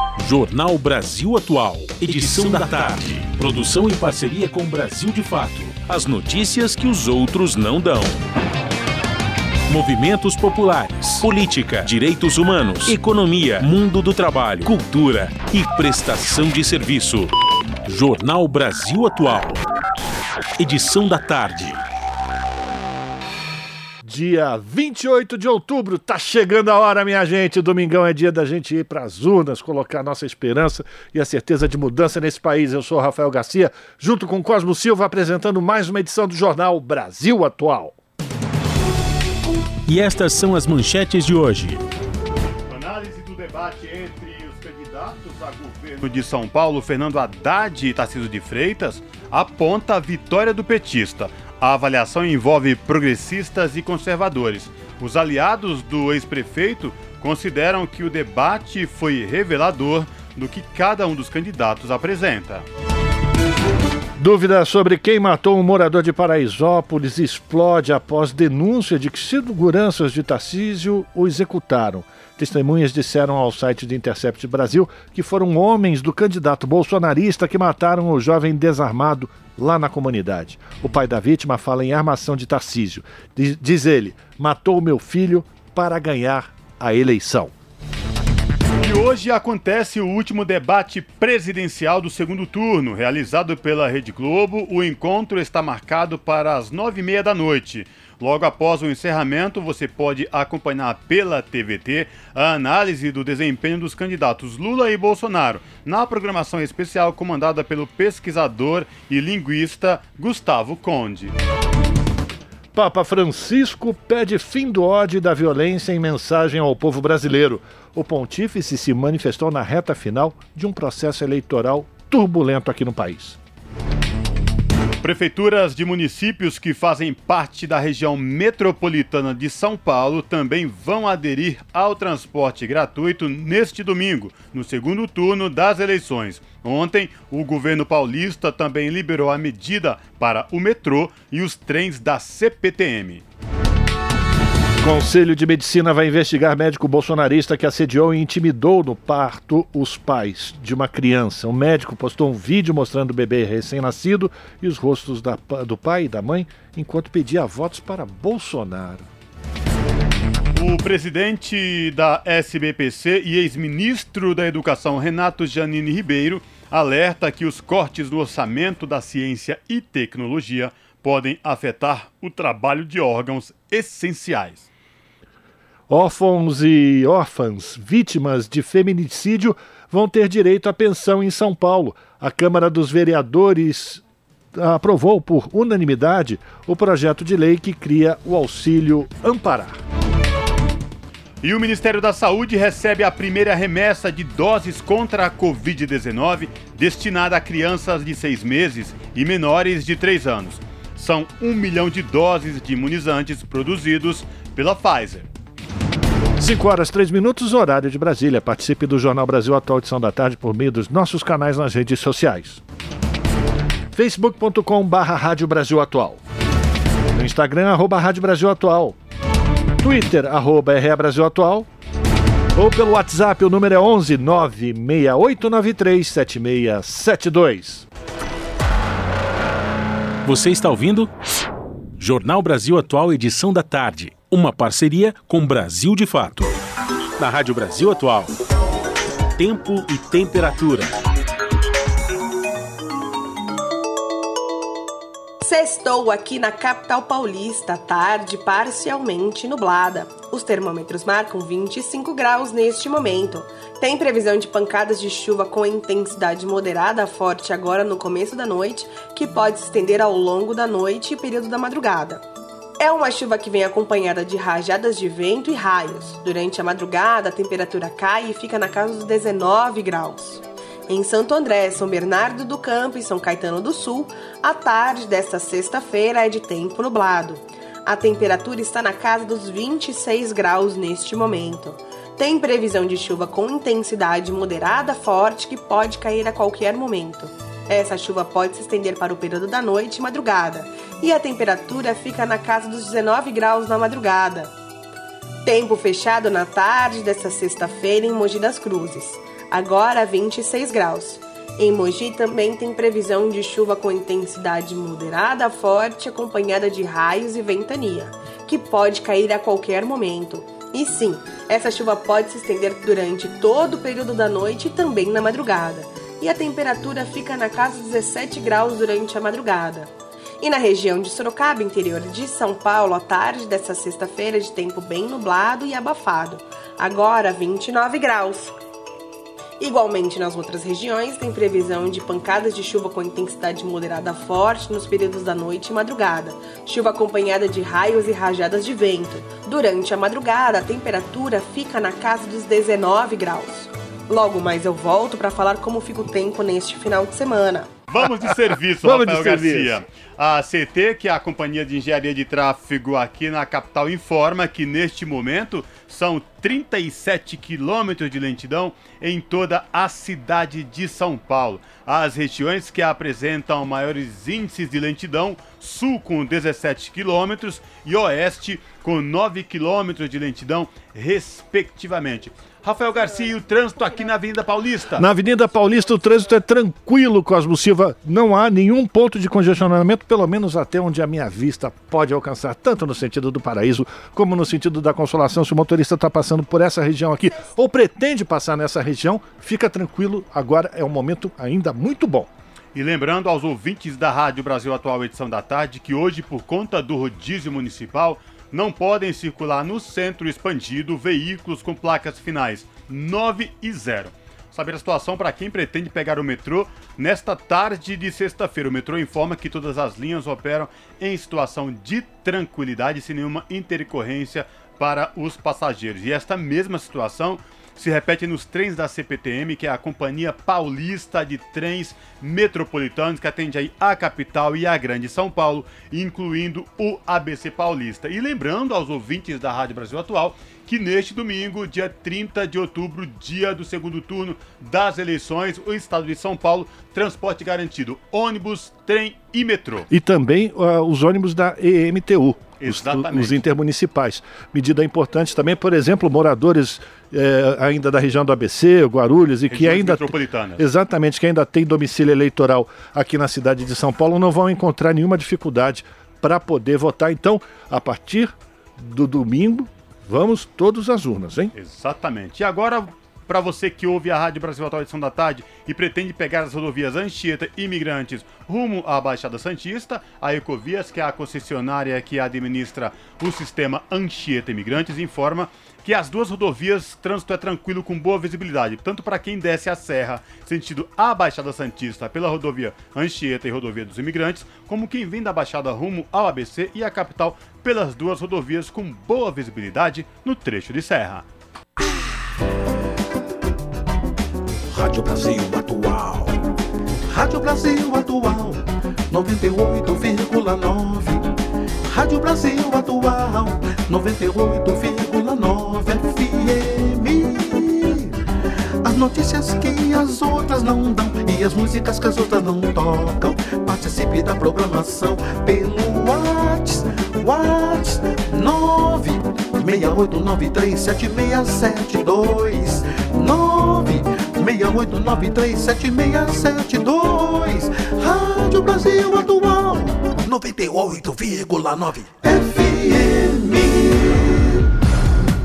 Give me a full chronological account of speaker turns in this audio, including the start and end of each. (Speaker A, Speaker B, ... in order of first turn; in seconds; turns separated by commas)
Speaker A: 0.2-8.2, Speaker A: 9.7-17.3, Speaker A: 17.9-19.6, Speaker A: 20.6-21.8, Speaker B: 24.0-38.0, Speaker A: 39.9-41.8, Speaker C: 42.7-62.7, Speaker B: 64.2-87.5, Speaker C: 88.8-111.3, Speaker B: 112.7-123.4, Speaker C: 125.0-143.2, Speaker B: 144.8-159.1, Speaker C: 160.6-174.7, Speaker B: 175.9-184.0, Speaker B: 184.5-189.8, Speaker C: 191.4-205.3, Speaker B: 206.4-212.6, Speaker B: 213.9-216.2, Speaker B: 217.1-219.0, Speaker B: 219.8-221.7, Speaker B: 222.6-227.9, Speaker A: 230.2-231.1, Speaker A: 232.0-236.6, Speaker A: 237.2-238.3, Speaker A: 239.4-240.9, Speaker D: 245.4-262.2, Speaker D: 262.8-294.5, Speaker D: 295.4-328.6, Speaker D: 329.6-347.8, Speaker C: 347.9-375.1, Speaker B: 348.0-349.8, Speaker B: 374.9-392.3, Speaker C: 392.8-439.9, Speaker B: 439.9-461.5, Speaker C: 442.6-443.4, Speaker C: 449.5-450.6, Speaker C: 461.6-491.2, Speaker E: 491.8-492.2, Speaker E: 494.7-496.4, Speaker E: 497.1-508.2, Speaker E: 508.8-534.6